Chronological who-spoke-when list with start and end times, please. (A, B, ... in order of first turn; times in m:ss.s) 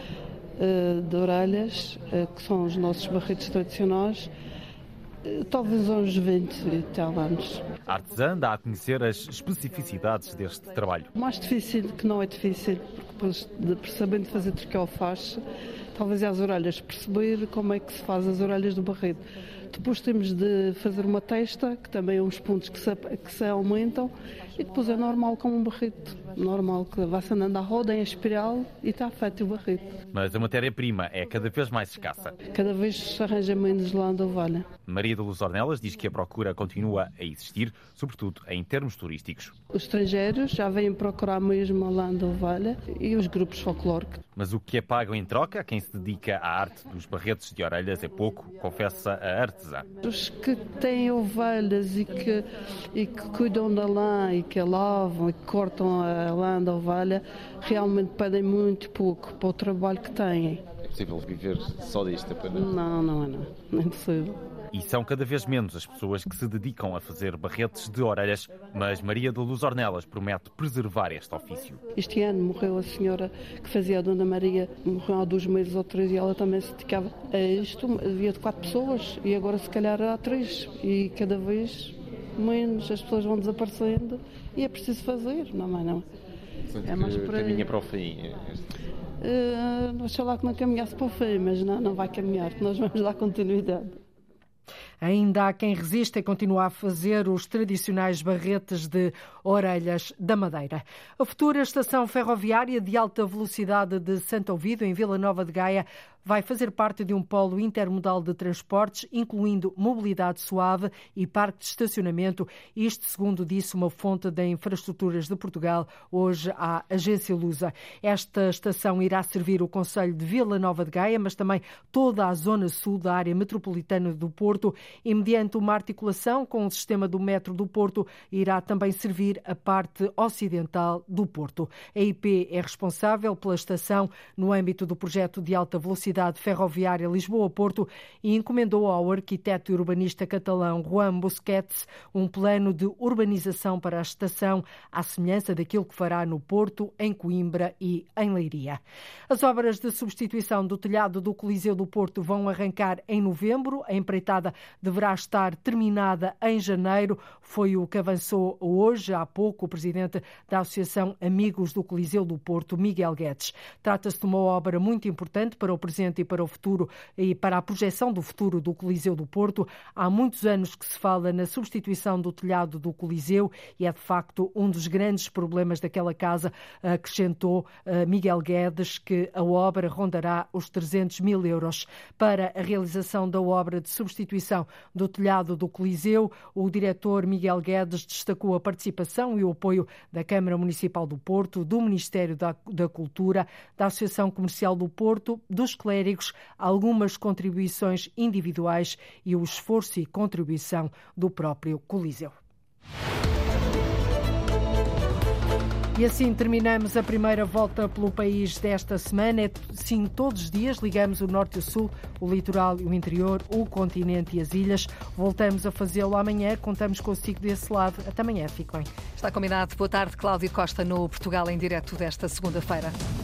0:00.6-0:04.3 A
0:05.3-0:07.6 A
0:07.9-0:11.1 B
0:11.2-0:15.4 A
0:16.0-0:30.0 A
0:30.1-0:32.4 B
0:32.4-0:34.7 A
0:34.9-0:39.6 B
0:39.7-0:44.2 A
0:44.4-0:49.8 B
0:50.0-1:00.6 A
1:00.8-1:02.7 C
1:02.5-1:04.4 A
1:04.7-1:11.8 B
1:12.0-1:26.1 A
1:26.7-1:28.6 C
1:26.8-1:27.7 A
1:29.2-1:34.0 A
1:35.0-3:22.3 D
3:26.0-3:38.9 D
3:39.2-3:43.0 E